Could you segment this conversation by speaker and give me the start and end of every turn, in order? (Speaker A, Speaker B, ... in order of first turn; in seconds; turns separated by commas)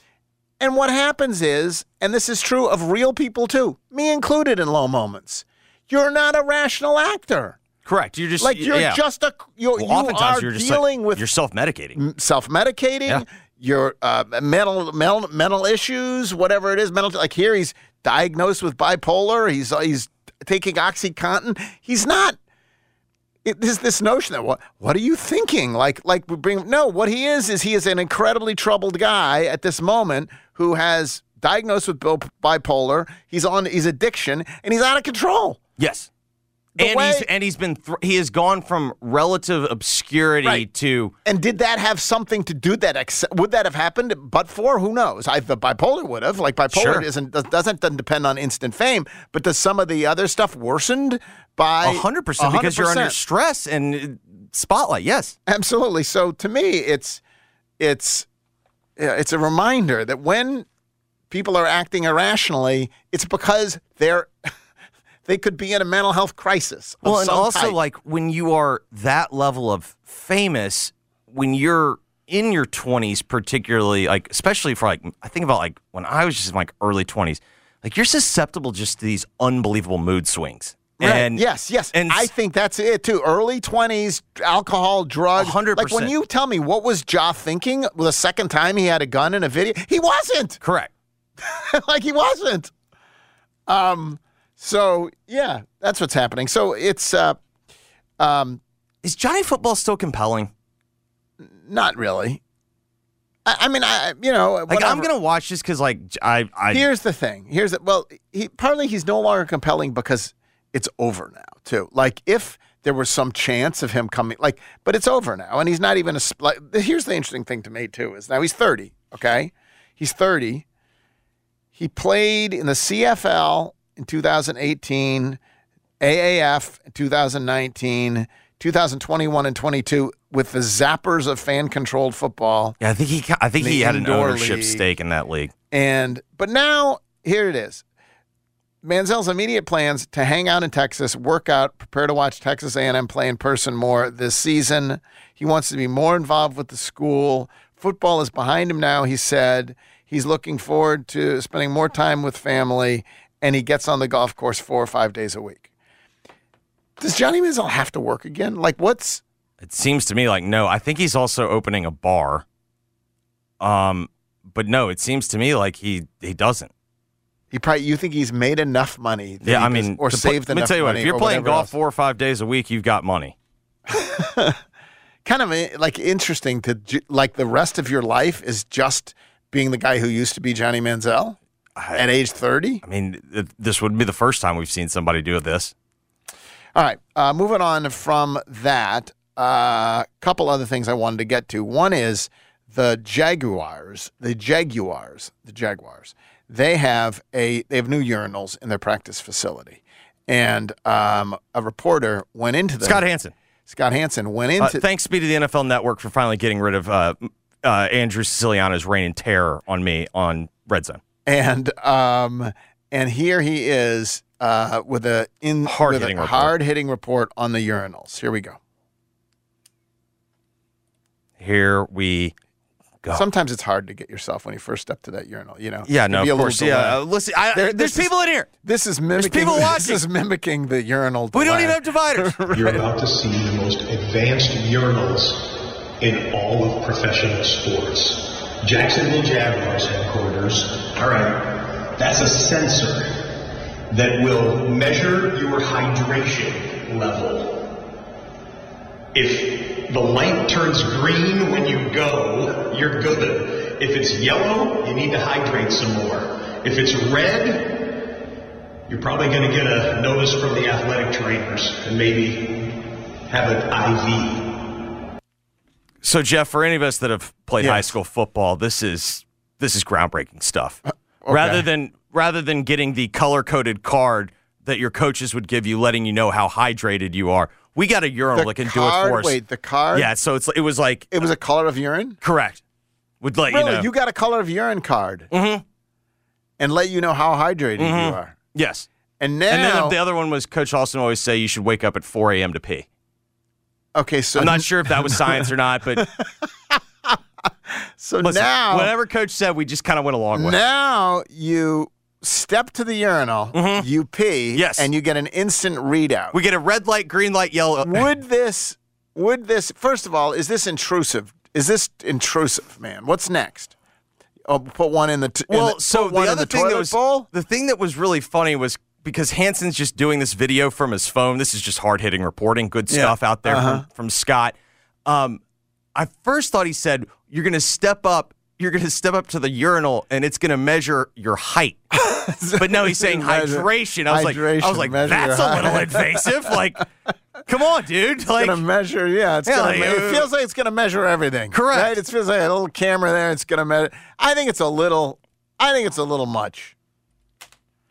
Speaker A: 0.6-7.6, Speaker B: 7.8-9.0, Speaker A: 8.4-11.2, Speaker B: 9.7-12.0, Speaker A: 11.9-22.4, Speaker A: 23.4-35.6, Speaker B: 35.8-36.1, Speaker A: 36.8-37.3, Speaker B: 36.8-41.1, Speaker A: 41.2-53.2, Speaker B: 46.7-47.1, Speaker B: 51.8-55.3, Speaker A: 55.5-57.2, Speaker A: 57.8-58.2, Speaker A: 59.0-60.6, Speaker A: 61.3-64.3, Speaker A: 65.2-67.8, Speaker B: 67.0-82.3, Speaker A: 81.0-90.6, Speaker B: 85.3-86.1, Speaker B: 90.6-90.9, Speaker A: 91.4-92.7, Speaker A: 93.7-97.4, Speaker A: 98.2-98.6, Speaker B: 99.0-100.5, Speaker A: 101.6-102.4, Speaker A: 103.5-105.1, Speaker B: 104.7-106.8, Speaker A: 106.7-120.6, Speaker A: 121.8-125.4, Speaker A: 126.0-132.8, Speaker B: 132.8-135.5, Speaker A: 133.6-134.8, Speaker A: 135.7-137.8, Speaker A: 138.8-155.7, Speaker A: 157.0-159.2, Speaker B: 159.6-162.4, Speaker B: 163.6-166.7, Speaker A: 167.5-171.7, Speaker B: 169.4-173.3, Speaker A: 173.9-174.6, Speaker A: 175.2-181.4, Speaker B: 181.8-182.0, Speaker A: 181.9-182.8, Speaker B: 182.8-185.7, Speaker A: 186.7-203.0, Speaker B: 202.8-203.3, Speaker A: 203.7-204.8, Speaker B: 204.6-211.0, Speaker A: 211.2-218.6, Speaker B: 215.7-216.5, Speaker B: 221.4-222.3, Speaker A: 223.1-227.0, Speaker B: 225.9-228.5, Speaker A: 227.5-232.8, Speaker B: 229.2-230.0, Speaker B: 231.3-232.4, Speaker C: 232.5-235.5, Speaker C: 236.0-243.2, Speaker C: 243.9-247.6, Speaker C: 249.1-257.8, Speaker C: 258.9-262.7, Speaker C: 263.3-264.5, Speaker B: 266.0-279.4, Speaker A: 267.6-267.9, Speaker A: 270.9-271.6, Speaker A: 278.3-280.1, Speaker B: 279.9-281.1, Speaker A: 281.1-282.2, Speaker B: 282.2-282.6, Speaker B: 283.2-283.9, Speaker A: 283.5-285.3, Speaker B: 285.3-285.6, Speaker A: 286.6-288.3, Speaker B: 287.8-288.9, Speaker A: 289.2-289.9, Speaker B: 289.5-292.9, Speaker A: 293.9-297.2, Speaker B: 294.4-296.0, Speaker A: 298.0-298.9, Speaker B: 298.2-300.6, Speaker A: 300.3-306.4, Speaker B: 303.5-303.9, Speaker B: 304.5-304.9, Speaker B: 306.3-308.1, Speaker A: 307.8-313.7, Speaker A: 314.5-317.3, Speaker B: 315.5-325.4, Speaker A: 322.9-323.8, Speaker B: 325.9-331.8, Speaker A: 331.9-336.8, Speaker B: 332.6-336.8, Speaker B: 337.4-338.6, Speaker A: 338.4-346.7, Speaker B: 339.4-340.3, Speaker B: 341.5-341.9